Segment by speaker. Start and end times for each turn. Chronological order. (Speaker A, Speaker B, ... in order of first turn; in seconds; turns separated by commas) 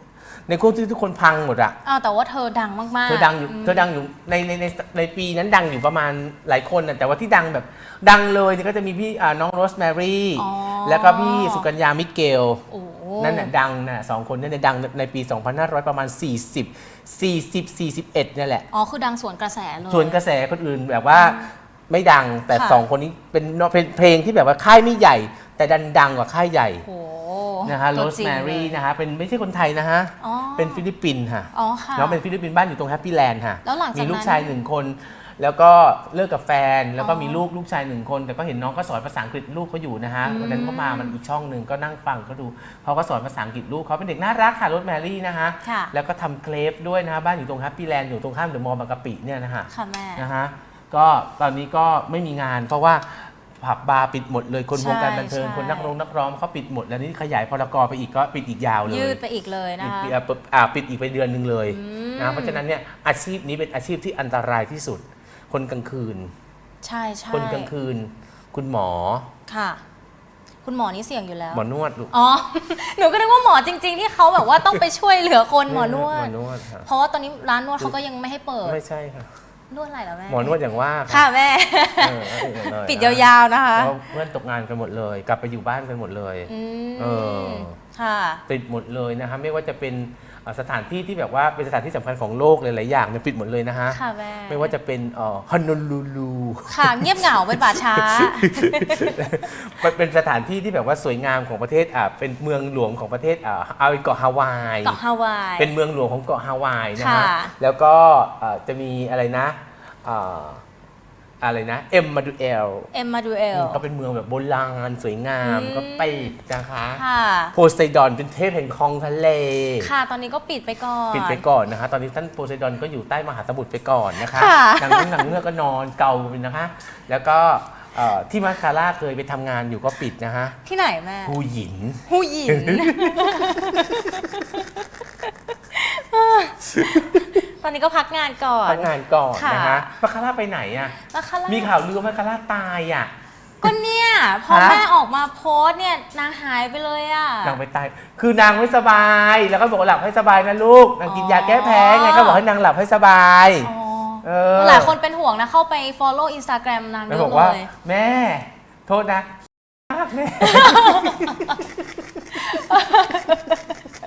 Speaker A: 0.5-1.8, Speaker B: 1.8-3.9, Speaker A: 3.0-12.6, Speaker B: 10.3-11.7, Speaker B: 12.7-13.5, Speaker A: 13.2-18.6, Speaker B: 18.7-20.2, Speaker A: 19.8-26.9, Speaker B: 21.1-21.5, Speaker B: 22.5-22.8, Speaker B: 26.8-28.7, Speaker A: 27.6-59.2, Speaker B: 30.2-30.9, Speaker B: 31.5-32.2, Speaker B: 33.6-34.5, Speaker B: 37.0-37.4, Speaker B: 40.2-41.1, Speaker B: 45.6-45.9, Speaker B: 49.7-50.2, Speaker B: 54.7-55.9, Speaker B: 58.8-60.1, Speaker A: 59.8-66.3, Speaker B: 61.7-62.6, Speaker B: 66.8-67.7, Speaker A: 67.3-69.3, Speaker B: 69.5-69.8, Speaker B: 70.6-76.3, Speaker A: 71.5-72.1, Speaker A: 75.7-76.9, Speaker B: 76.8-78.8, Speaker A: 78.6-79.3, Speaker B: 79.7-80.6, Speaker A: 80.3-81.2, Speaker B: 81.1-84.1, Speaker A: 82.0-87.8, Speaker B: 86.5-88.4, Speaker A: 88.5-105.0, Speaker B: 93.9-94.7, Speaker B: 96.7-99.2, Speaker B: 104.8-105.7, Speaker A: 105.6-110.6, Speaker B: 106.9-107.5, Speaker A: 111.4-112.9, Speaker B: 112.9-113.8, Speaker A: 113.5-119.9, Speaker B: 115.4-116.3, Speaker B: 117.0-117.5, Speaker B: 119.8-121.4, Speaker A: 121.1-130.6, Speaker B: 124.2-125.3, Speaker B: 130.6-131.3, Speaker A: 131.2-134.4, Speaker B: 132.1-134.8, Speaker B: 135.7-139.9, Speaker A: 136.7-137.3, Speaker A: 138.6-143.1, Speaker B: 141.1-141.7, Speaker B: 143.6-147.6, Speaker A: 144.5-144.8, Speaker A: 147.4-153.7, Speaker B: 151.1-152.4, Speaker B: 153.6-157.7, Speaker A: 154.2-154.9, Speaker A: 157.1-159.4, Speaker A: 159.9-162.2, Speaker B: 160.4-161.6, Speaker B: 162.3-163.8